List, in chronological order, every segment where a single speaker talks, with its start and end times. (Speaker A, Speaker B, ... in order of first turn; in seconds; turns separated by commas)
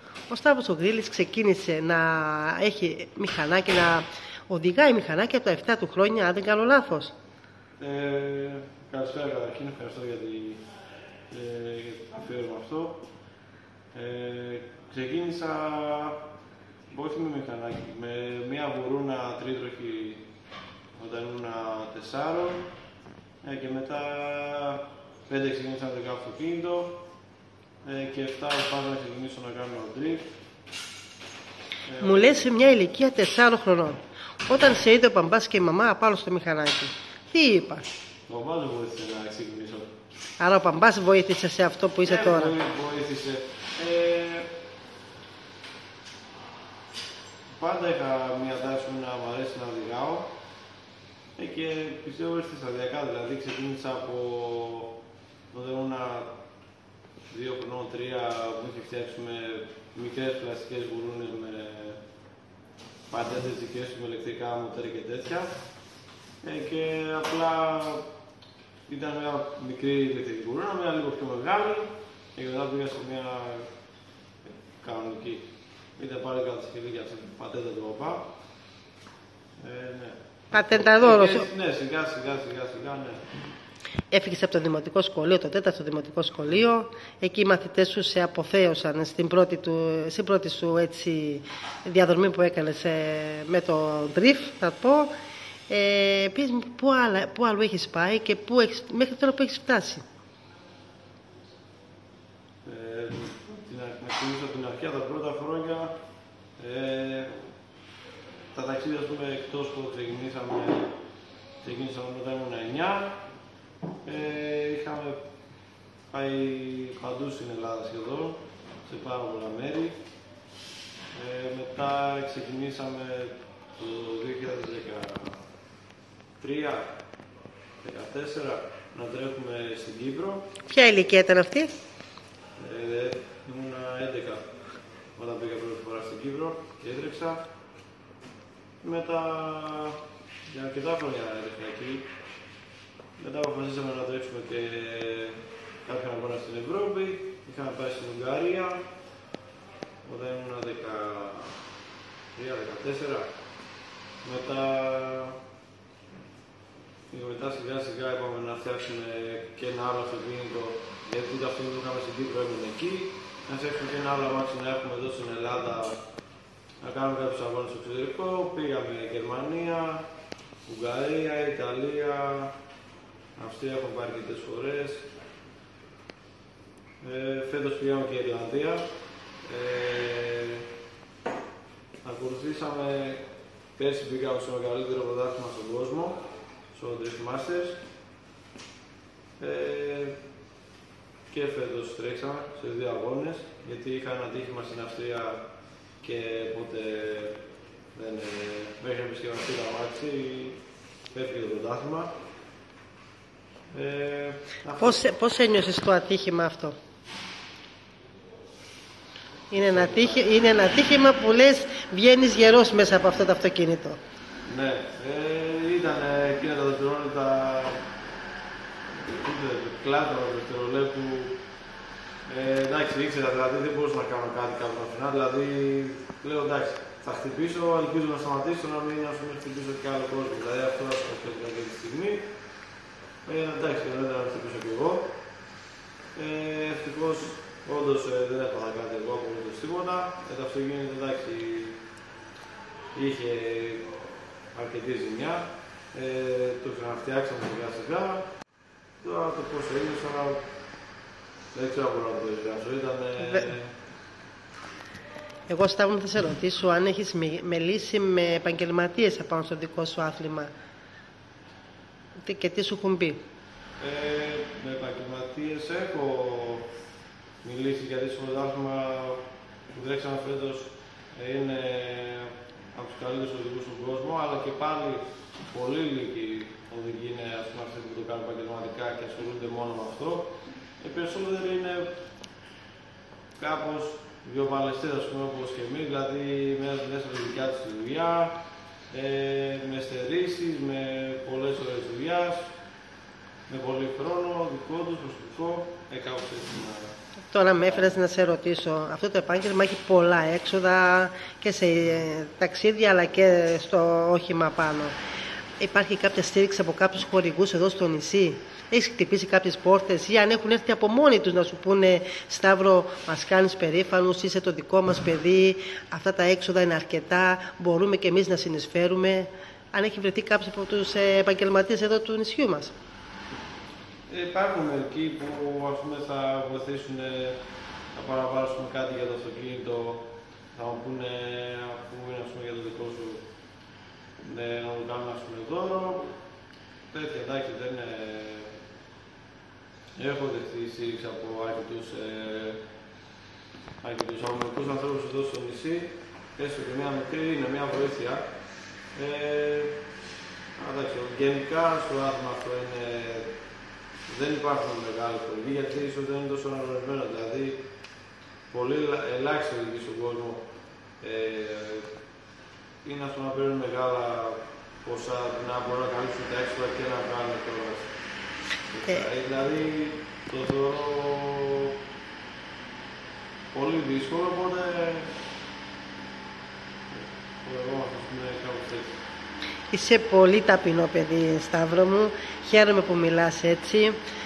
Speaker A: 0.3-7.1, Speaker B: 7.8-10.6, Speaker B: 11.3-13.1, Speaker B: 13.9-16.2, Speaker B: 16.9-20.2, Speaker B: 21.0-22.7, Speaker B: 23.4-27.0, Speaker B: 27.8-30.3, Speaker B: 31.9-32.5, Speaker A: 32.0-37.8, Speaker B: 38.3-39.9, Speaker A: 40.4-42.5, Speaker B: 42.0-44.5, Speaker B: 47.6-50.3, Speaker B: 51.4-55.0, Speaker B: 55.5-56.3, Speaker B: 57.3-62.0, Speaker B: 63.1-65.5, Speaker B: 66.4-68.0, Speaker B: 68.9-73.7, Speaker B: 74.4-75.5, Speaker B: 76.0-78.3, Speaker B: 79.6-83.3, Speaker A: 80.5-81.5, Speaker A: 84.1-95.1, Speaker A: 95.7-100.0, Speaker B: 102.7-105.9, Speaker B: 106.6-107.3, Speaker B: 108.5-110.9, Speaker B: 111.6-113.2, Speaker B: 114.0-115.2, Speaker B: 116.1-120.0, Speaker B: 121.1-125.4, Speaker B: 126.4-126.9, Speaker B: 127.8-130.5, Speaker A: 130.7-131.8, Speaker B: 132.6-134.5, Speaker B: 135.2-137.4, Speaker B: 138.8-142.1, Speaker B: 143.2-148.8, Speaker B: 150.0-151.6, Speaker B: 152.3-153.3, Speaker B: 154.2-155.4, Speaker B: 157.1-166.0, Speaker B: 166.8-170.1, Speaker B: 170.7-172.5, Speaker B: 173.4-175.1, Speaker B: 177.0-178.9, Speaker B: 179.4-180.7, Speaker B: 182.0-183.2, Speaker B: 183.8-186.2, Speaker B: 186.7-187.8, Speaker B: 189.4-190.2, Speaker B: 191.3-195.4, Speaker B: 196.0-197.4, Speaker B: 197.9-200.6, Speaker B: 201.1-202.1, Speaker B: 203.7-205.0, Speaker A: 204.8-206.8, Speaker A: 209.5-214.0, Speaker B: 209.5-210.3, Speaker B: 214.5-217.8, Speaker B: 218.9-221.4, Speaker B: 222.3-232.3, Speaker B: 233.2-235.2, Speaker B: 236.2-241.8, Speaker B: 242.9-243.9, Speaker B: 244.5-248.3, Speaker B: 249.0-250.4, Speaker B: 251.5-253.7, Speaker A: 255.5-260.5, Speaker A: 262.2-263.2, Speaker B: 263.8-266.7, Speaker B: 267.4-281.9, Speaker B: 283.4-288.4, Speaker B: 288.9-292.5, Speaker B: 293.5-296.9, Speaker A: 297.3-304.9, Speaker A: 305.6-322.7, Speaker B: 324.1-327.4, Speaker B: 327.9-333.2, Speaker B: 334.2-336.1, Speaker B: 336.9-338.5, Speaker B: 340.0-342.6, Speaker B: 343.8-348.2, Speaker B: 348.9-349.8, Speaker B: 350.6-353.3, Speaker B: 354.1-357.6, Speaker B: 358.5-360.4, Speaker B: 361.0-361.9, Speaker B: 362.8-367.9, Speaker B: 368.7-371.8, Speaker B: 373.5-375.2, Speaker B: 376.9-379.0, Speaker A: 379.7-384.0